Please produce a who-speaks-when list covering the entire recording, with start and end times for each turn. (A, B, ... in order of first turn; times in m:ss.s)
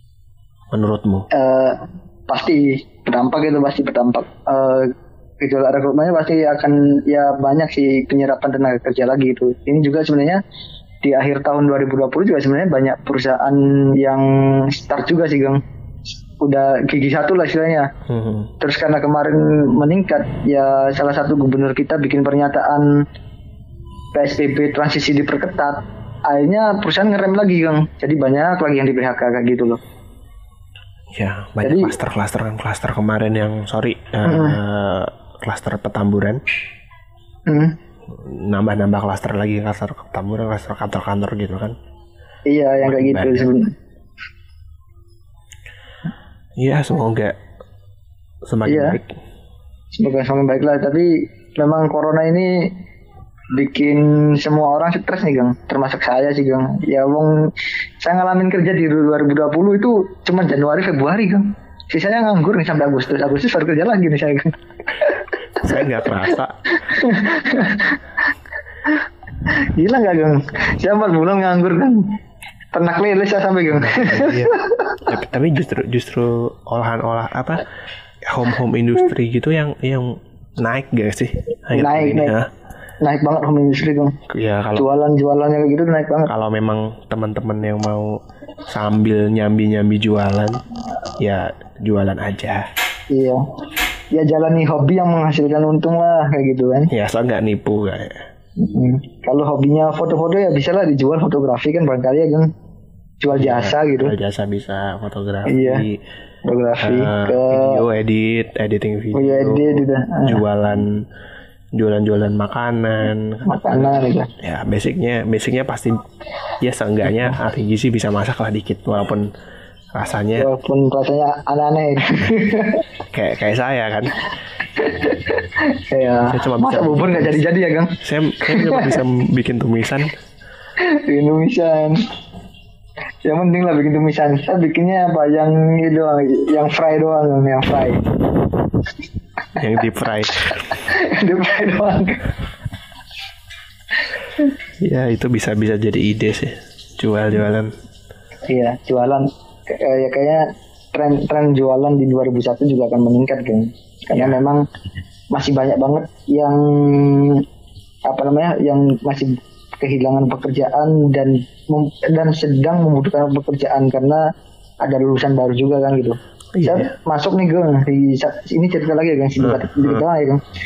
0:00.7-0:01.3 A
0:01.3-0:10.4 B
0:11.0-0:15.6 B
0:16.4-0:17.9 B
0:18.1-0:18.5 A
0:18.6-0:23.0 B
0:24.1-0:29.8 B
0:31.2-0:36.4 A
0:31.6-0:31.9 B
0:34.2-0:34.6 B
0:37.5-0:37.8 B
0:38.1-0:41.8 A
0:42.5-0:43.7 B
0:42.8-0:43.5 A
0:46.6-0:47.4 A
0:48.5-0:49.1 A
0:48.6-0:49.0 B
0:50.0-0:52.7 B
0:53.6-0:57.5 B
0:58.0-1:05.2 B
1:05.6-1:06.6 A
1:06.8-1:08.0 B
1:08.9-1:12.2 B
1:12.7-1:15.0 B
1:13.7-1:17.7 A
1:18.2-1:22.5 A
1:21.7-1:22.4 B
1:23.0-1:24.2 B
1:24.3-1:24.9 A
1:24.8-1:26.3 B
1:26.3-1:30.6 A
1:31.2-1:32.7 A
1:33.1-1:33.5 B
1:34.1-1:36.9 B
1:36.9-1:38.2 A
1:38.6-1:42.5 B
1:43.2-1:44.2 B
1:43.4-1:46.0 A
1:45.5-1:45.8 B
1:46.4-1:47.8 B
1:46.8-1:51.1 A
1:49.1-1:50.4 B
1:51.8-1:56.0 A
1:53.5-1:54.3 B
1:56.6-1:59.3 A
1:59.9-2:00.5 A
2:00.4-2:02.8 B
2:03.1-2:04.3 A
2:04.8-2:09.0 B
2:06.2-2:07.5 A
2:08.0-2:10.1 A
2:10.8-2:12.1 B
2:13.2-2:18.1 B
2:19.6-2:20.8 A
2:20.5-2:22.4 B
2:24.8-2:27.7 A
2:28.5-2:34.7 B
2:35.3-2:37.4 B
2:38.0-2:44.3 B
2:44.8-2:50.4 B
2:46.5-2:46.9 A
2:49.4-2:50.0 A